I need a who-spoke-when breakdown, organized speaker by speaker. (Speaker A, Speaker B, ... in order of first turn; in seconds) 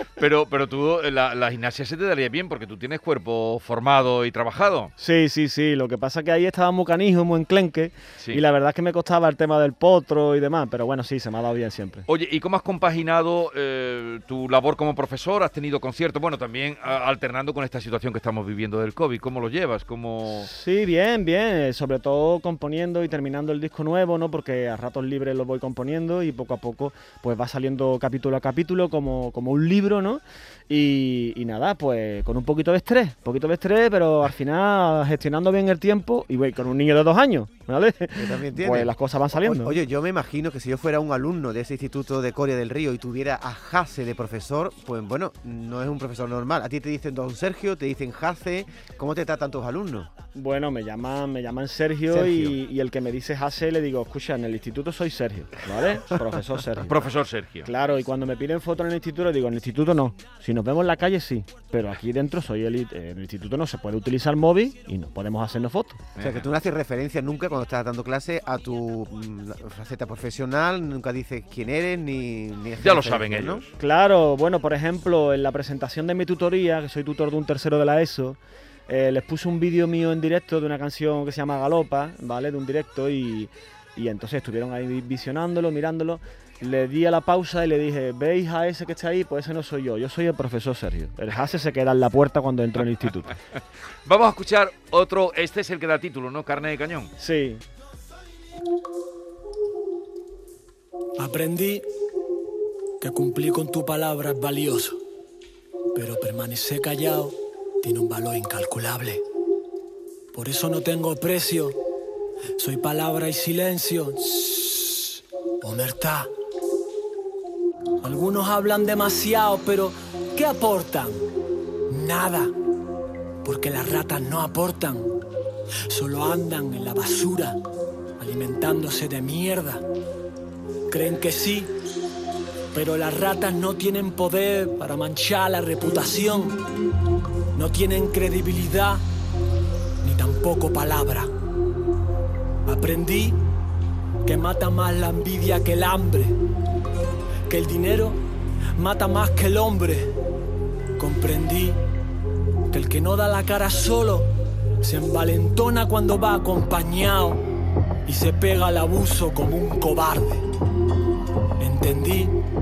Speaker A: 0.2-4.9, 12.1-20.5, 56.9-57.7, 66.2-66.5, 72.8-73.7, 94.0-97.1
Speaker B: 5.0-12.1, 20.3-39.8, 50.3-57.0, 57.6-66.0, 73.8-93.3, 97.2-97.7
Speaker C: 38.2-50.1, 52.1-52.6, 66.2-73.7
Speaker D: 101.2-101.9, 103.0-105.0, 105.9-109.2, 110.3-111.8, 112.6-116.3, 118.0-121.3, 121.9-122.6, 123.4-125.2, 125.9-127.6, 128.2-129.9, 130.9-131.7, 132.7-136.6, 137.6-139.1, 140.0-141.3, 142.7-143.4, 144.2-146.4, 147.5-148.2, 148.7-150.2, 151.0-151.8, 152.7-157.5, 158.1-160.5, 161.6-162.4